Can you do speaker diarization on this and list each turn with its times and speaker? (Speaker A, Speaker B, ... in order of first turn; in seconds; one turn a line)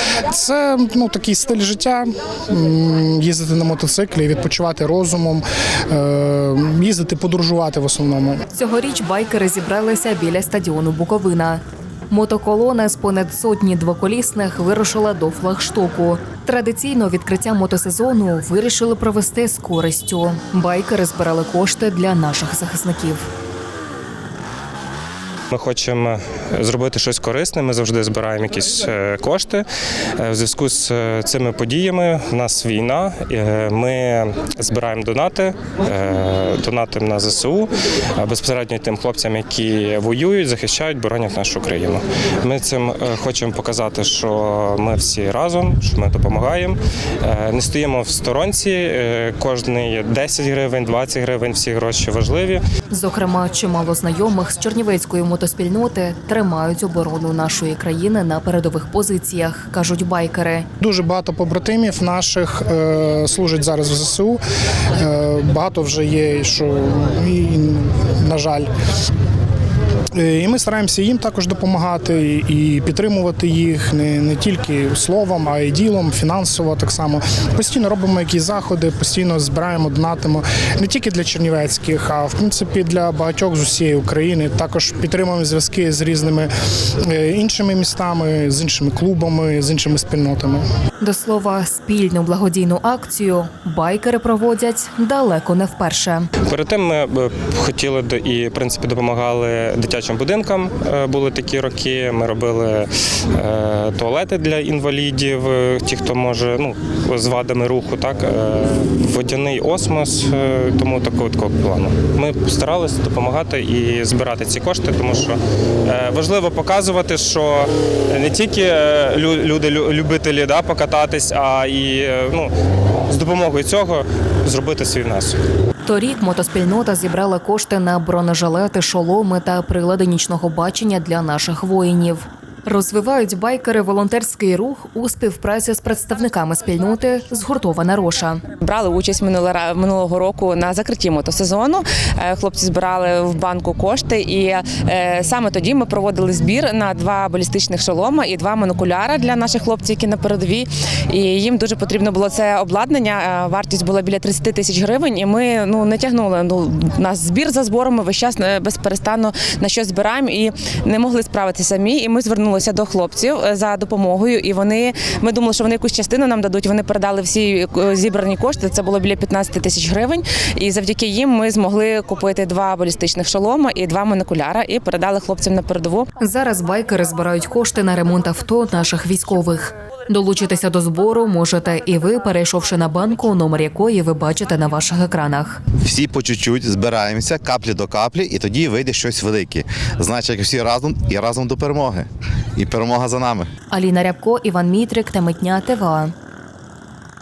Speaker A: 0.3-8.4
Speaker B: 8.5-23.3
Speaker C: 25.5-29.6
Speaker C: 30.2-52.6
Speaker B: 52.9-60.7
Speaker A: 60.8-64.4
Speaker A: 65.0-68.7
Speaker A: 70.2-86.5
Speaker A: 87.1-90.6
Speaker B: 91.0-96.3
Speaker C: 96.4-122.5
Speaker C: 123.1-125.4
Speaker B: 125.9-138.4
Speaker D: 138.6-176.1
Speaker B: 176.2-185.6
Speaker E: 185.8-193.5
Speaker B: 193.7-196.1